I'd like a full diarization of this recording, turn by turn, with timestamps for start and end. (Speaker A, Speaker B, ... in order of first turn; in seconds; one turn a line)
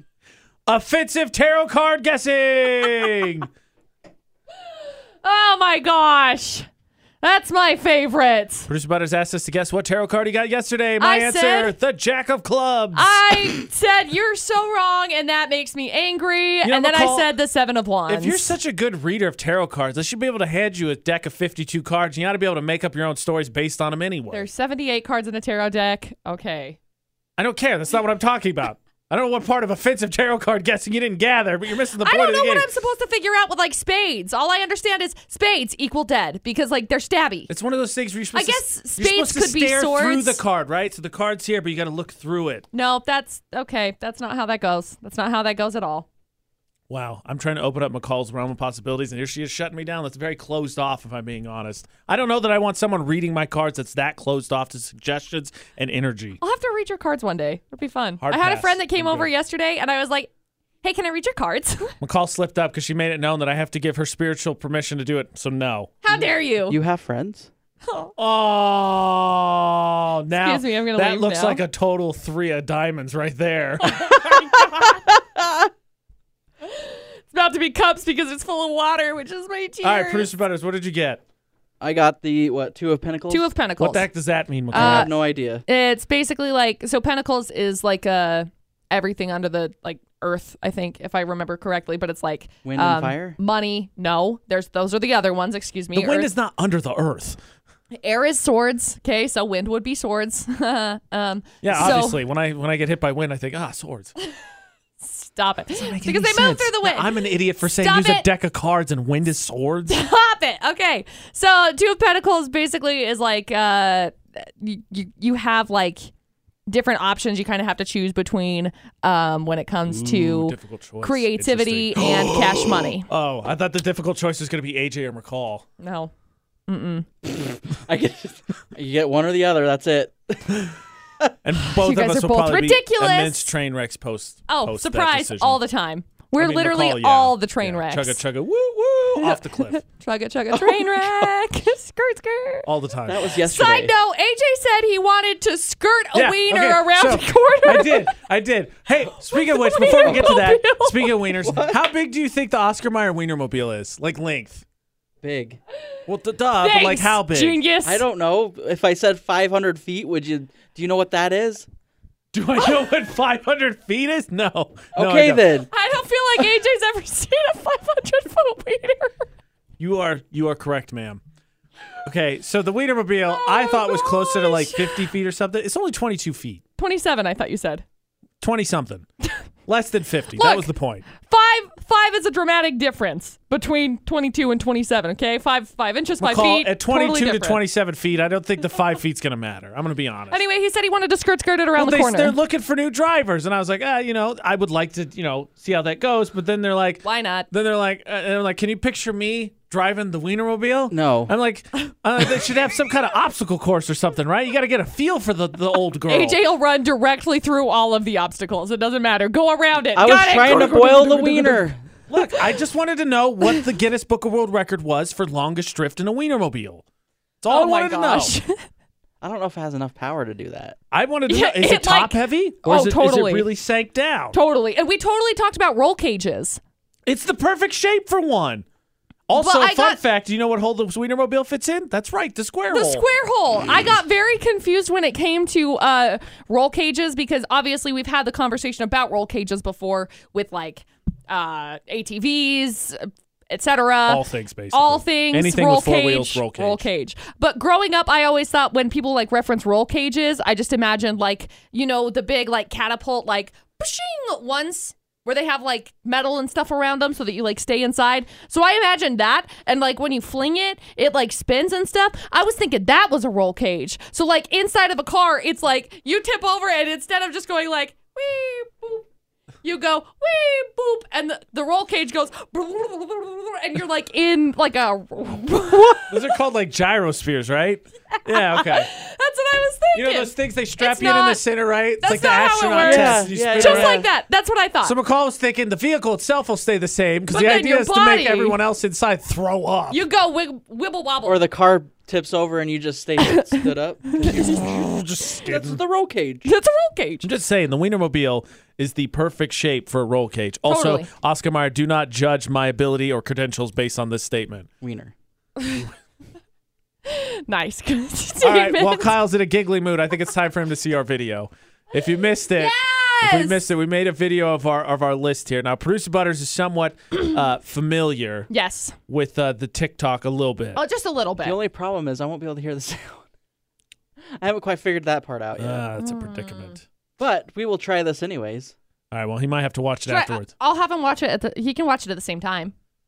Speaker A: 0.7-3.5
Speaker B: 5.2-6.7
Speaker B: 7.2-8.7
Speaker A: 8.7-13.3
Speaker B: 11.0-11.8
Speaker B: 12.9-18.6
Speaker A: 16.6-17.3
Speaker A: 18.1-24.5
Speaker B: 24.3-26.8
Speaker A: 27.4-32.7
Speaker B: 32.0-37.5
Speaker A: 37.5-42.6
Speaker B: 38.3-40.4
Speaker B: 42.7-46.1
Speaker A: 46.9-56.4
Speaker B: 56.4-60.3
Speaker A: 58.2-59.3
Speaker B: 60.8-62.0
Speaker A: 62.0-65.9
Speaker B: 66.0-66.8
Speaker C: 66.1-67.5
Speaker B: 67.9-68.1
Speaker A: 68.2-74.9
Speaker B: 70.3-71.6
Speaker B: 73.8-75.2
Speaker B: 76.6-80.3
Speaker A: 79.8-81.2
Speaker C: 81.8-83.5
Speaker B: 83.3-84.1
Speaker A: 83.8-85.1
Speaker B: 84.7-96.3
Speaker C: 84.7-85.7
Speaker C: 92.7-93.4
Speaker A: 95.9-97.4
Speaker B: 98.0-102.2
Speaker A: 101.6-104.1
Speaker B: 105.0-108.3
Speaker A: 105.7-110.0
Speaker B: 109.9-116.1
Speaker B: 116.7-123.1
Speaker A: 119.9-125.7
Speaker B: 125.8-126.1
Speaker B: 126.7-127.1
Speaker C: 127.2-130.6
Speaker A: 131.4-135.6
Speaker B: 131.7-133.5
Speaker B: 134.5-138.2
Speaker A: 136.3-139.8
Speaker B: 139.2-142.7
Speaker A: 140.5-141.3
Speaker A: 142.7-143.3
Speaker C: 143.1-143.9
Speaker B: 143.3-148.1
Speaker A: 146.1-154.7
Speaker B: 149.3-151.4
Speaker C: 150.0-150.4
Speaker C: 151.4-151.8
Speaker C: 155.2-155.6
Speaker A: 156.1-157.6
Speaker B: 156.6-158.1
Speaker C: 157.8-161.7
Speaker A: 162.3-165.5
Speaker B: 162.6-162.9
Speaker C: 164.9-165.7
Speaker B: 165.7-169.2
Speaker A: 169.8-171.2
Speaker A: 172.0-176.6
Speaker B: 173.3-175.1
Speaker B: 176.8-177.8
Speaker A: 178.4-179.1
Speaker A: 179.7-181.1
Speaker B: 180.3-187.6
Speaker A: 186.2-190.4
Speaker B: 190.3-192.4
Speaker A: 191.8-206.4
Speaker B: 197.0-197.5
Speaker C: 200.9-201.3
Speaker B: 206.1-211.7
Speaker C: 209.9-211.8
Speaker A: 210.4-211.3
Speaker A: 212.1-216.8
Speaker A: 217.4-218.4
Speaker B: 217.5-218.7
Speaker C: 219.2-220.8
Speaker A: 220.9-224.4
Speaker B: 221.3-223.5
Speaker B: 224.3-226.6
Speaker A: 227.1-228.7
Speaker A: 229.3-233.1
Speaker B: 229.3-230.0
Speaker B: 232.7-269.1
Speaker A: 244.1-246.9
Speaker B: 269.6-276.3
Speaker A: 276.1-278.9
Speaker B: 278.3-281.4
Speaker A: 279.9-284.0
Speaker B: 282.0-285.0
Speaker C: 282.8-284.1
Speaker A: 284.8-290.0
Speaker B: 287.3-288.6
Speaker B: 289.9-291.4
Speaker C: 291.2-294.5
Speaker B: 293.2-294.6
Speaker A: 294.2-295.8
Speaker C: 295.4-296.5
Speaker B: 296.4-297.3
Speaker A: 297.2-304.7
Speaker B: 300.7-301.1
Speaker C: 304.8-305.1
Speaker B: 305.6-305.9
Speaker B: 307.1-309.2
Speaker A: 308.4-318.5
Speaker B: 312.5-313.7
Speaker B: 318.5-319.0
Speaker A: 319.1-320.8
Speaker B: 320.8-321.6
Speaker C: 321.4-323.3
Speaker C: 324.4-325.9
Speaker A: 325.6-326.9
Speaker B: 326.0-326.8
Speaker C: 327.2-328.7
Speaker A: 329.1-330.5
Speaker B: 330.1-332.7